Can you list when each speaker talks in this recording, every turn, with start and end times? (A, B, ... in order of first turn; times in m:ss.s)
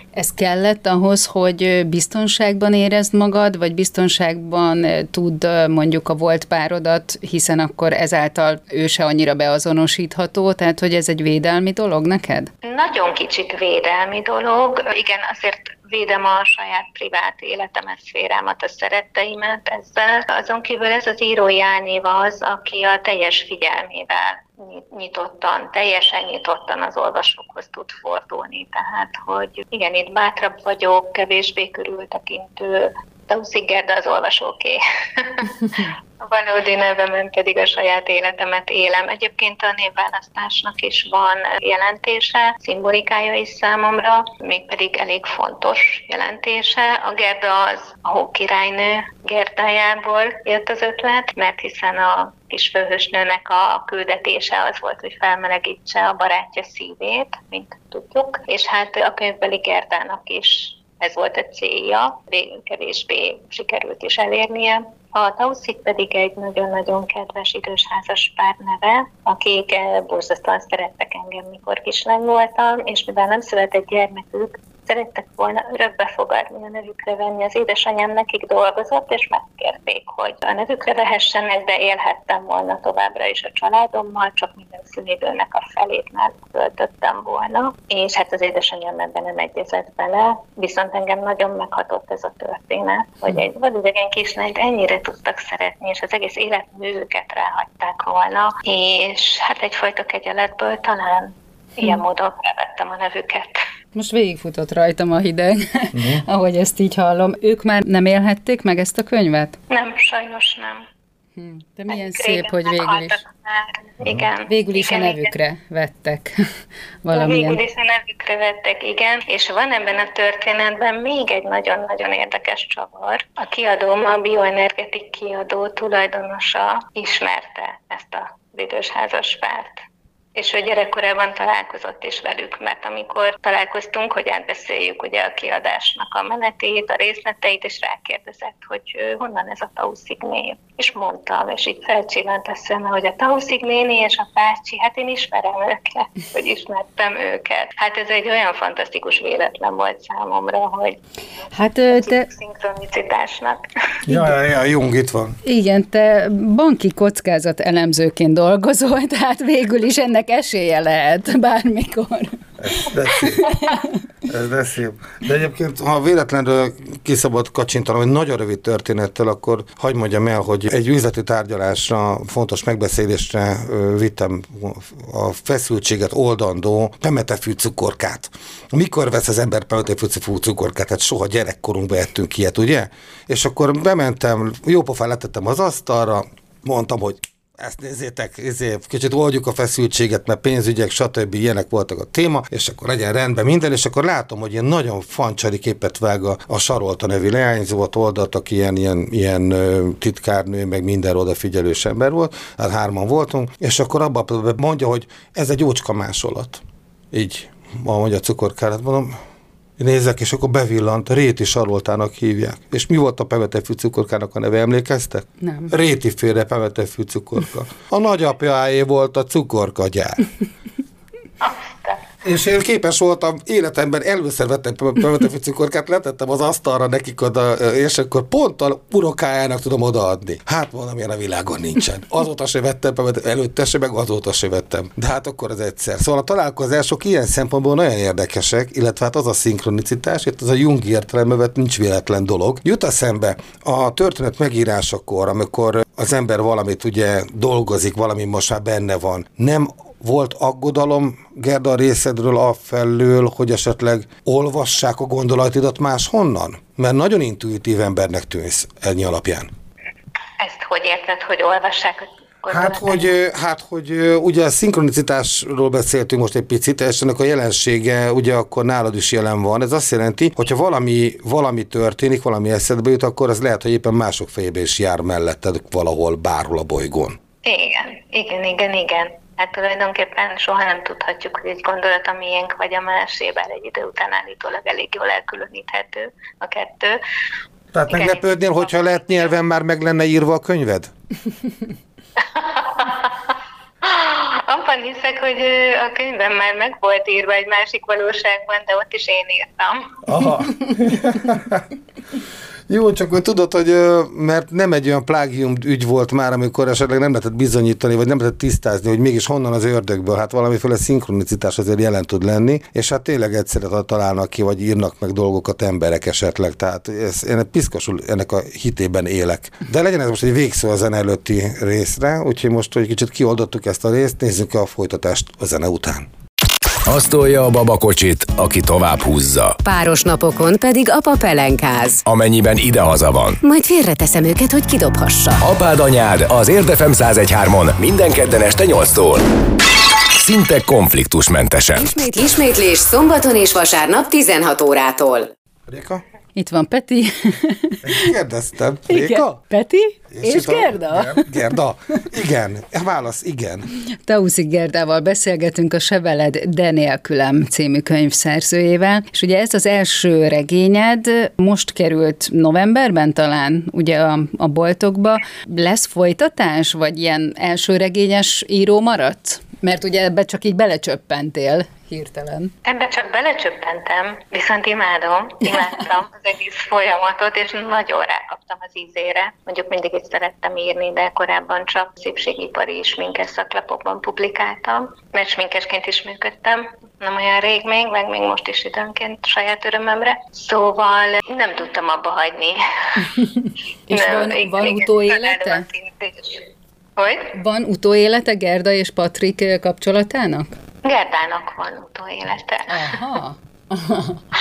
0:00.2-0:12.5 A
0:12.6-1:43.6 B
1:44.0-1:49.6 A
1:45.9-1:46.2 C
1:49.7-1:50.9 B
1:51.4-1:53.2 A
1:51.9-1:55.3 B
1:54.5-1:56.5 A
1:57.0-1:57.6 A
1:57.1-2:09.8 B
2:10.4-2:31.0 B
2:31.5-2:32.3 A
2:31.9-2:33.6 B
2:34.1-2:35.4 C
2:35.4-2:42.4 A
2:42.6-2:43.5 C
2:43.1-2:43.9 A
2:44.3-3:29.2 C
3:29.8-3:40.3 C
3:35.4-3:35.7 A
3:41.4-3:42.0 B
3:42.2-4:19.5 C
4:20.4-4:23.1 B
4:22.5-4:37.2 C
4:37.4-4:47.0 B
4:47.7-4:50.9 C
4:47.9-4:49.2 B
4:52.2-5:00.0 B
5:00.0-5:01.7 C
5:02.7-5:26.1 C
5:26.9-5:29.6 D
5:29.6-5:32.0 E
5:32.0-5:33.4 D
5:33.4-5:35.4 E
5:35.4-5:39.2 D
5:40.2-5:41.9 D
5:41.8-5:45.3 E
5:45.7-5:46.0 C
5:46.4-5:48.1 A
5:47.8-5:49.4 C
5:48.9-5:51.3 A
5:50.1-5:53.7 C
5:54.0-6:12.5 A
6:12.6-6:32.6 B
6:33.2-6:35.7 A
6:33.9-6:36.5 B
6:37.0-6:37.3 B
6:37.3-6:40.5 A
6:40.8-6:42.8 B
6:42.7-6:44.2 A